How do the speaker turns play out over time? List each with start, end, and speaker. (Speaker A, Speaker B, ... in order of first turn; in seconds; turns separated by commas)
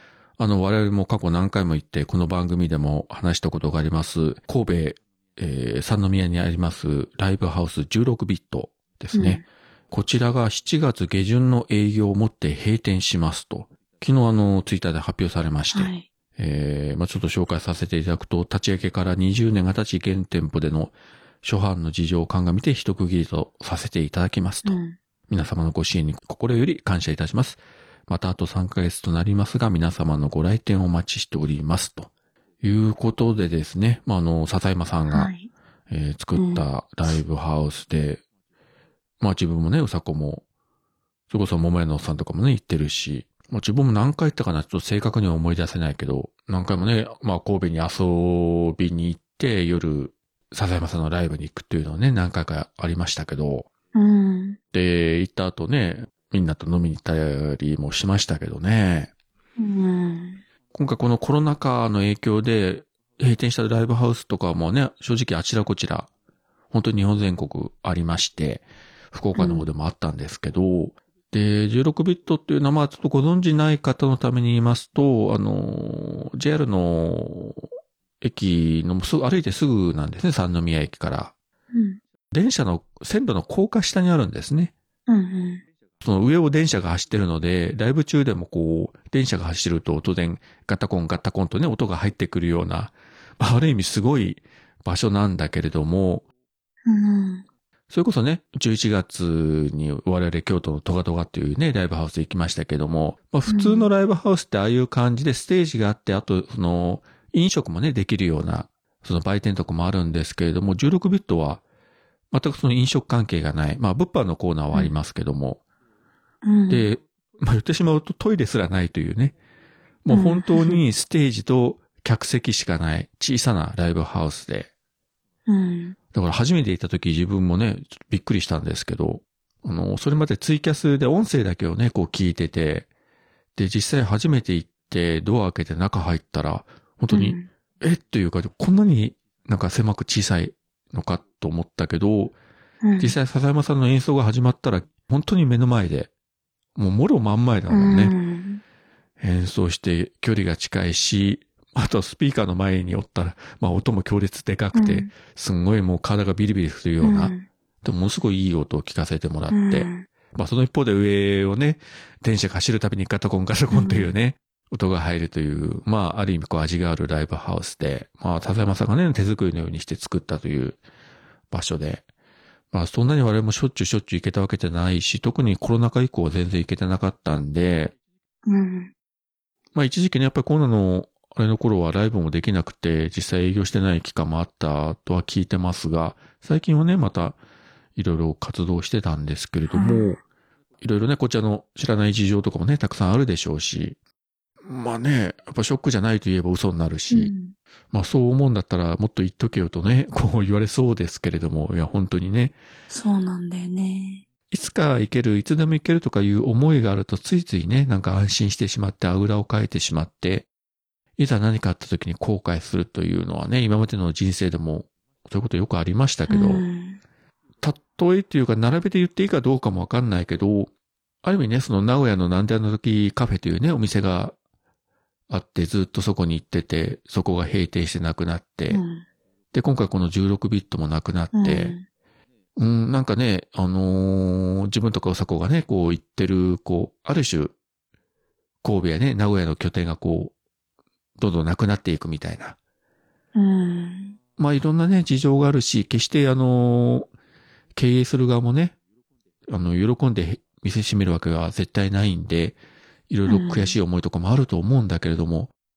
Speaker A: 0.4-32.1, Speaker B: 9.1-9.4, Speaker B: 15.7-16.1, Speaker B: 24.6-25.0, Speaker A: 32.6-35.3, Speaker B: 35.1-35.5, Speaker A: 35.9-38.2, Speaker B: 36.3-36.6, Speaker A: 39.2-40.4, Speaker A: 41.3-53.7, Speaker B: 53.9-54.6, Speaker A: 54.7-59.1, Speaker B: 59.6-60.4, Speaker A: 60.7-66.1, Speaker A: 66.7-77.7, Speaker B: 69.3-69.7, Speaker A: 78.2-81.3, Speaker B: 81.7-82.0, Speaker A: 82.3-84.7, Speaker B: 85.1-85.6, Speaker A: 86.0-96.2, Speaker B: 96.8-97.4, Speaker A: 97.9-111.6, Speaker B: 103.5-103.9, Speaker A: 112.3-115.6, Speaker B: 116.4-116.8, Speaker A: 116.7-119.3, Speaker A: 120.0-124.7, Speaker B: 120.1-120.8, Speaker B: 125.5-126.0, Speaker A: 126.1-132.9, Speaker A: 133.6-142.3, Speaker B: 137.1-137.5, Speaker B: 142.8-143.1, Speaker A: 143.0-146.1, Speaker A: 146.8-148.1, Speaker B: 147.7-148.6, Speaker A: 149.2-170.8, Speaker B: 154.7-155.1, Speaker B: 157.0-157.4, Speaker B: 159.5-160.1, Speaker B: 163.7-164.1, Speaker A: 171.5-172.0, Speaker A: 172.7-177.9, Speaker B: 178.4-178.9, Speaker A: 179.7-187.4, Speaker A: 187.9-190.2, Speaker B: 189.7-190.2, Speaker A: 190.8-194.0, Speaker A: 194.6-197.3, Speaker B: 197.1-197.6, Speaker A: 197.9-202.6, Speaker B: 202.9-204.2, Speaker A: 204.5-210.5, Speaker A: 211.2-216.7, Speaker B: 216.3-217.0, Speaker A: 217.6-220.7, Speaker A: 221.2-224.3, Speaker A: 225.3-228.8, Speaker B: 228.7-229.1, Speaker A: 229.5-231.8, Speaker B: 231.3-231.8, Speaker A: 232.6-237.6, Speaker A: 238.6-240.3, Speaker A: 241.2-242.6, Speaker B: 243.3-244.1, Speaker A: 244.4-247.1, Speaker A: 247.7-248.7, Speaker A: 249.5-252.6, Speaker A: 253.1-255.5, Speaker B: 253.3-253.8